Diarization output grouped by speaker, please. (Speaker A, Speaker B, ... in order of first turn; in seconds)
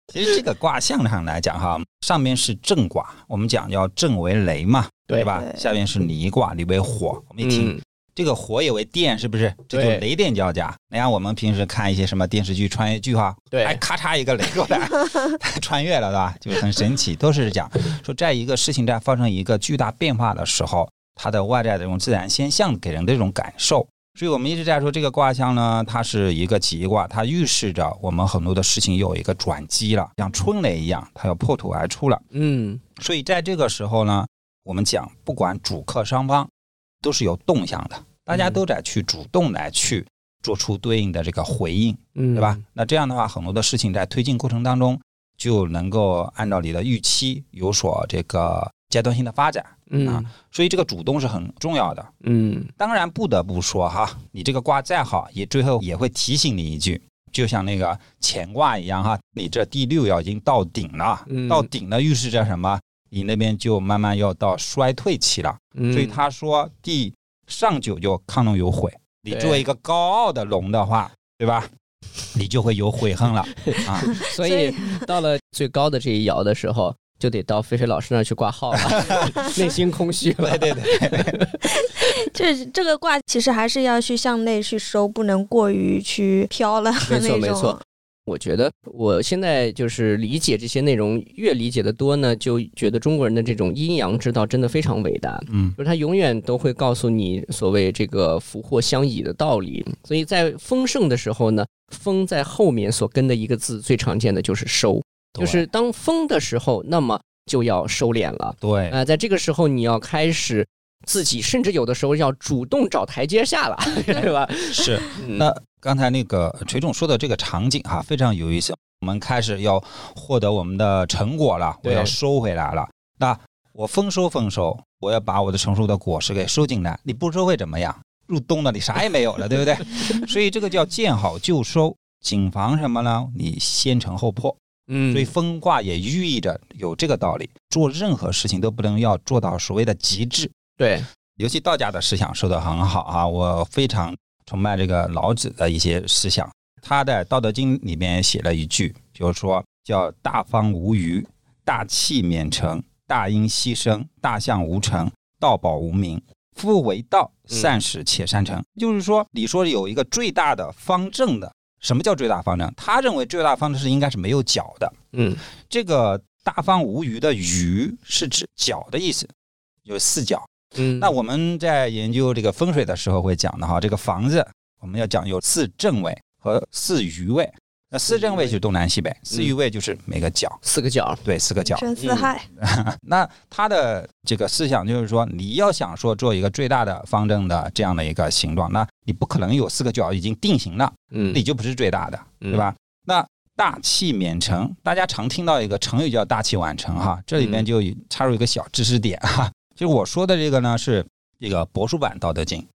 Speaker A: 0.1-32.2, 33.0-36.5, 37.0-52.1, 52.8-71.7, 72.3-74.1, 78.9-79.3, 80.4-81.3, 95.5-95.8, 105.3-105.6, 108.6-109.0, 114.7-134.6, 135.1-140.5, 141.4-164.9, 165.7-169.3, 169.8-180.6, 181.2-181.9, 182.6-202.7
Speaker B: 5.3-5.8, 74.4-75.0, 81.8-87.8, 181.6-182.4
Speaker C: 7.4-7.8, 9.7-10.0, 13.5-13.8, 32.3-32.8, 38.3-38.6, 42.1-42.6, 49.9-50.3, 52.2-52.7, 61.3-61.7, 65.7-66.2, 69.3-69.6, 73.6-82.1, 87.0-115.5, 121.8-122.1, 134.9-135.3, 140.8-141.1, 165.1-165.4, 170.8-171.1, 178.1-178.5, 180.6-181.2, 182.0-182.3, 191.1-191.4, 197.4-197.7